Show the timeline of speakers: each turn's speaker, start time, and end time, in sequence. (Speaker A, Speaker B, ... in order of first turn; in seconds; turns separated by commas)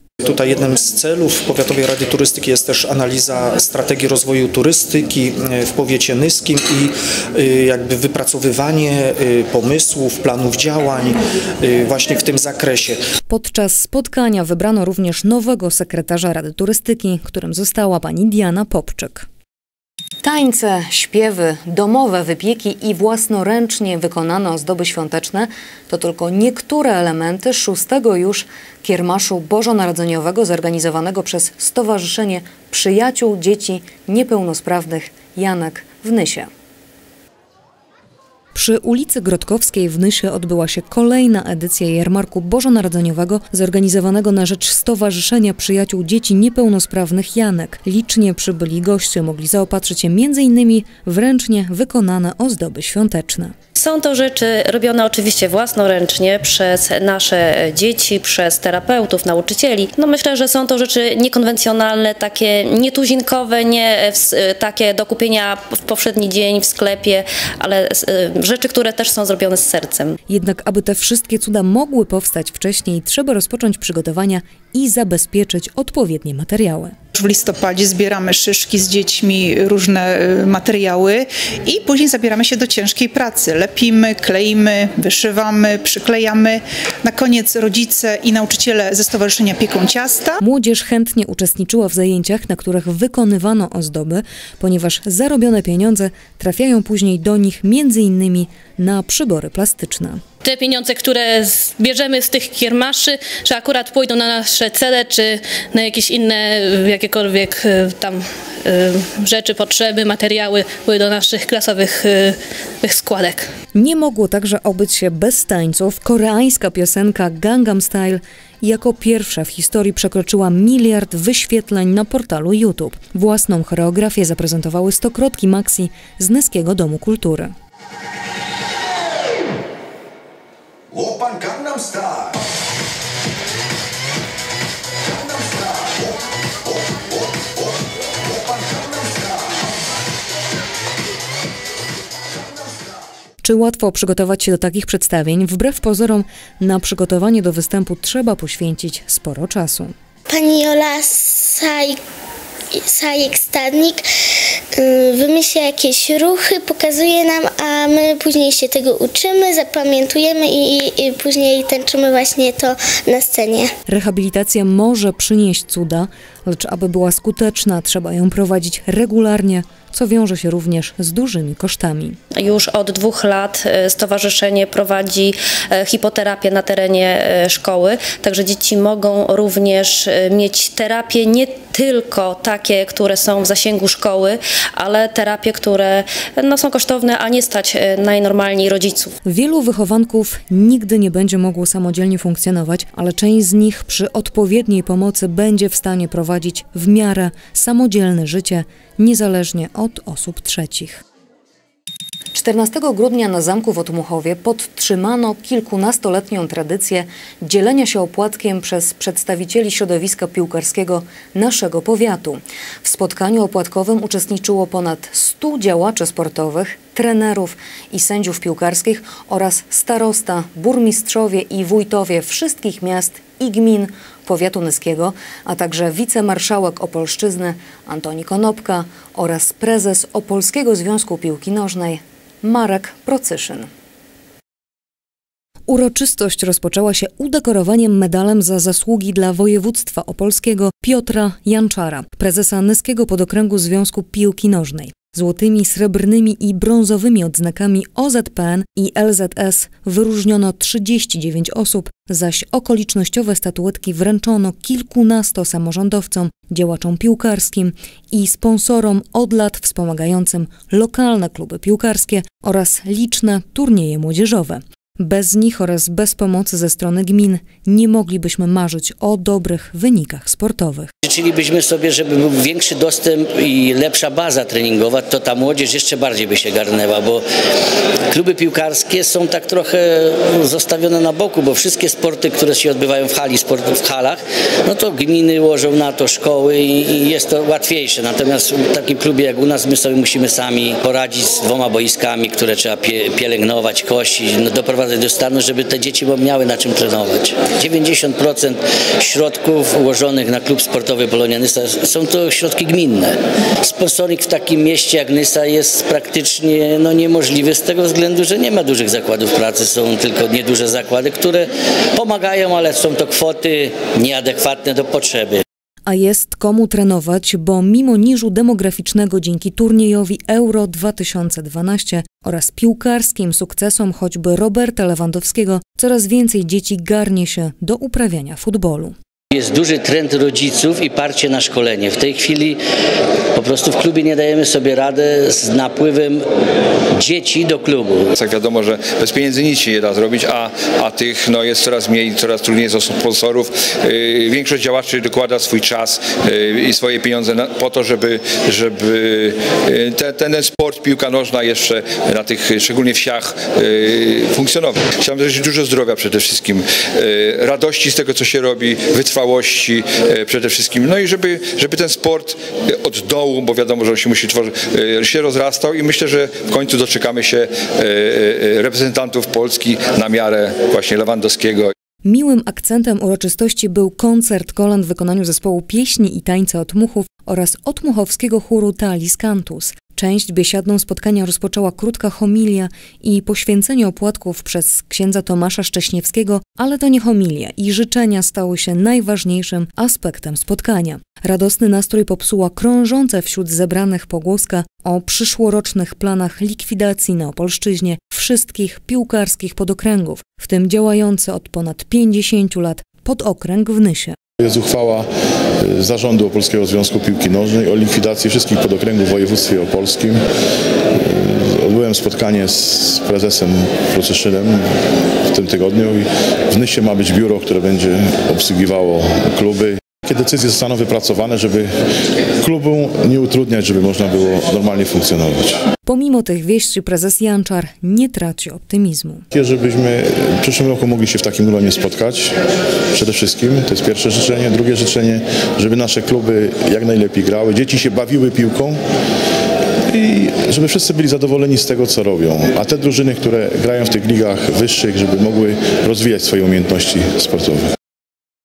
Speaker A: 0.2-13.1, Speaker B: 13.3-19.3, Speaker B: 20.2-36.5, Speaker B: 38.5-53.5, Speaker C: 53.8-70.2, Speaker B: 70.3-77.0, Speaker D: 77.1-90.4, Speaker B: 90.4-100.2, Speaker E: 100.4-113.5, Speaker B: 113.7-127.5, Speaker B: 143.4-149.9, Speaker F: 150.3-152.0, Speaker F: 152.8-154.0, Speaker F: 154.8-163.7, Speaker B: 163.9-172.2, Speaker C: 172.3-189.2, Speaker B: 189.2-201.0, Speaker B: 202.3-233.7, Speaker B: 235.7-270.9, Speaker G: 271.0-277.2, Speaker G: 278.1-315.4, Speaker B: 315.9-328.9, Speaker G: 329.3-332.6, Speaker G: 333.3-336.3, Speaker G: 337.0-338.1, Speaker H: 338.2-371.7, Speaker B: 372.1-404.2, Speaker I: 404.4-410.3, Speaker I: 410.9-421.8, Speaker I: 422.4-425.6, Speaker B: 425.8-429.2, Speaker I: 429.3-432.4, Speaker I: 432.9-438.8, Speaker I: 439.9-447.7